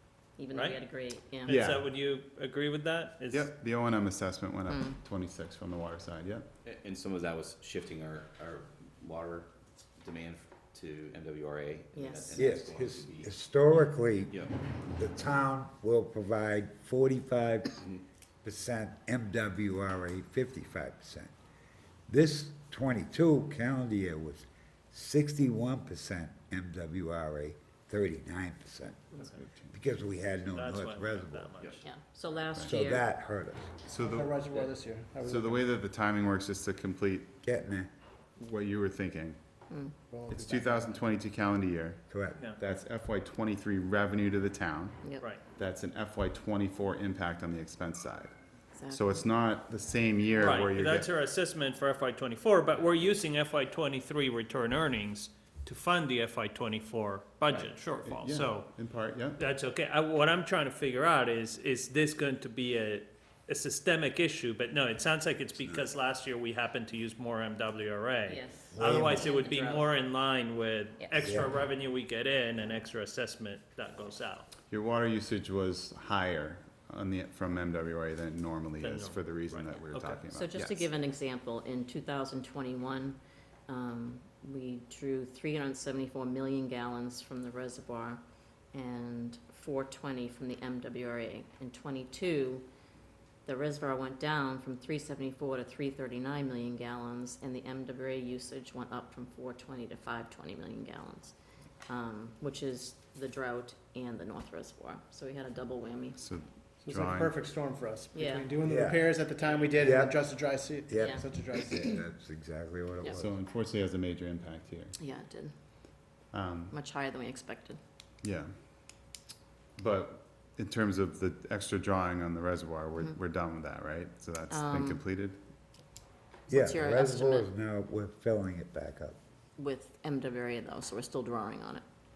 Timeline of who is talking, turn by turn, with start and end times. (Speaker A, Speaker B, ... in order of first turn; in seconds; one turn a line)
Speaker A: 0.4-1.6
Speaker B: 0.5-3.5
Speaker C: 1.5-1.9
Speaker C: 3.3-6.5
Speaker A: 4.7-5.0
Speaker D: 6.6-13.3
Speaker A: 11.9-12.5
Speaker E: 12.4-17.8
Speaker D: 14.3-14.8
Speaker D: 17.8-18.0
Speaker E: 18.4-21.3
Speaker E: 22.1-31.5
Speaker C: 29.4-29.7
Speaker B: 30.5-31.9
Speaker A: 31.8-33.1
Speaker E: 32.6-33.7
Speaker C: 33.8-34.7
Speaker F: 34.1-35.7
Speaker C: 35.2-37.3
Speaker E: 37.4-37.9
Speaker C: 38.4-39.4
Speaker A: 39.7-40.0
Speaker F: 40.1-41.0
Speaker C: 40.3-48.3
Speaker E: 42.1-42.5
Speaker A: 48.8-49.3
Speaker C: 48.9-51.1
Speaker B: 50.4-58.7
Speaker C: 58.0-59.4
Speaker B: 59.4-74.5
Speaker A: 68.2-69.9
Speaker E: 68.7-69.2
Speaker A: 71.0-71.4
Speaker E: 71.2-71.7
Speaker C: 74.7-80.9
Speaker B: 78.8-80.2
Speaker A: 80.3-83.2
Speaker A: 83.7-88.2
Speaker A: 88.7-92.7
Speaker A: 93.5-101.3
Speaker A: 101.8-106.2
Speaker C: 106.2-107.4
Speaker F: 106.8-112.0
Speaker A: 108.1-108.5
Speaker E: 108.7-109.1
Speaker B: 109.4-109.9
Speaker E: 109.8-110.1
Speaker E: 110.9-113.3
Speaker A: 110.9-111.2
Speaker C: 113.1-115.0
Speaker A: 115.0-115.5
Speaker C: 116.3-116.8
Speaker A: 116.7-117.8
Speaker C: 118.2-118.5
Speaker C: 119.8-125.4
Speaker A: 124.5-125.0
Speaker E: 126.5-129.2
Speaker A: 126.5-127.5
Speaker A: 129.6-131.8